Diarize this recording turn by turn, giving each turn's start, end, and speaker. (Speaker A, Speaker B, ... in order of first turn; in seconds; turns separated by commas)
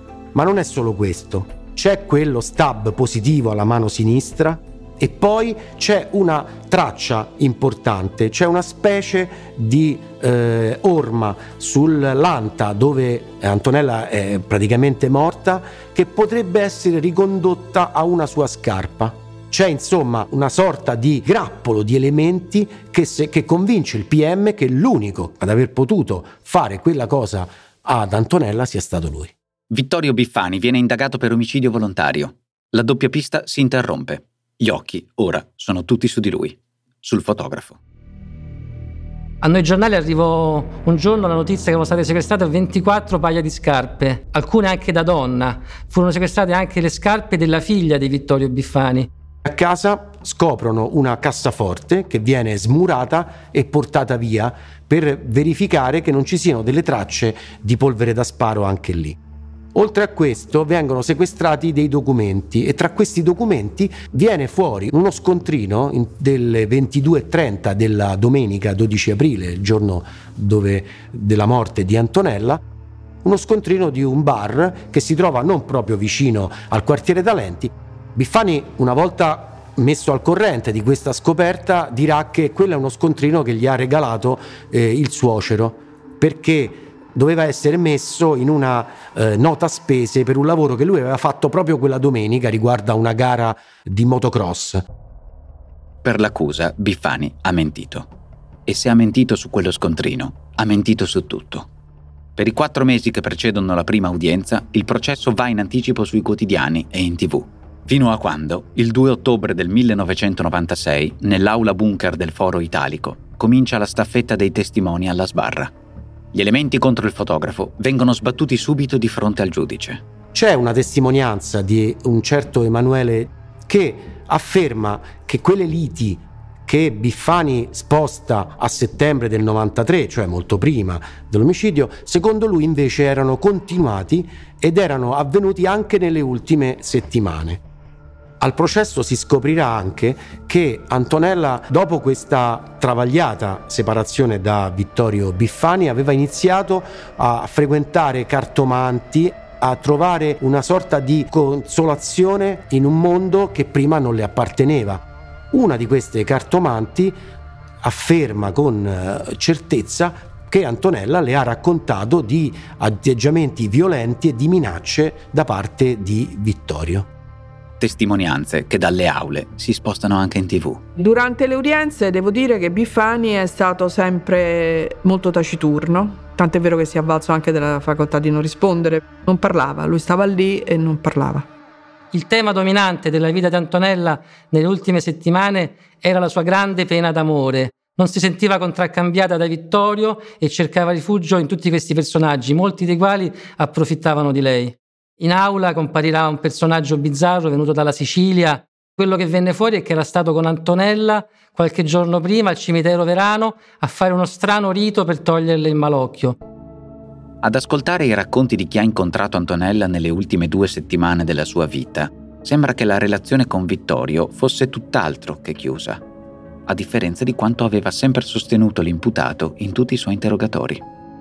Speaker A: 0.3-29.3, Speaker B: 29.7-37.8, Speaker C: 39.4-49.1, Speaker A: 49.4-59.2, Speaker A: 59.7-72.6, Speaker A: 73.2-94.8, Speaker B: 96.0-98.1, Speaker B: 98.7-101.7, Speaker B: 102.3-115.7, Speaker B: 116.3-120.0, Speaker A: 120.3-137.6, Speaker A: 138.4-157.2, Speaker A: 157.8-167.1, Speaker B: 167.8-170.8, Speaker D: 170.9-181.5, Speaker C: 182.1-206.4, Speaker B: 207.4-216.0, Speaker B: 216.7-220.8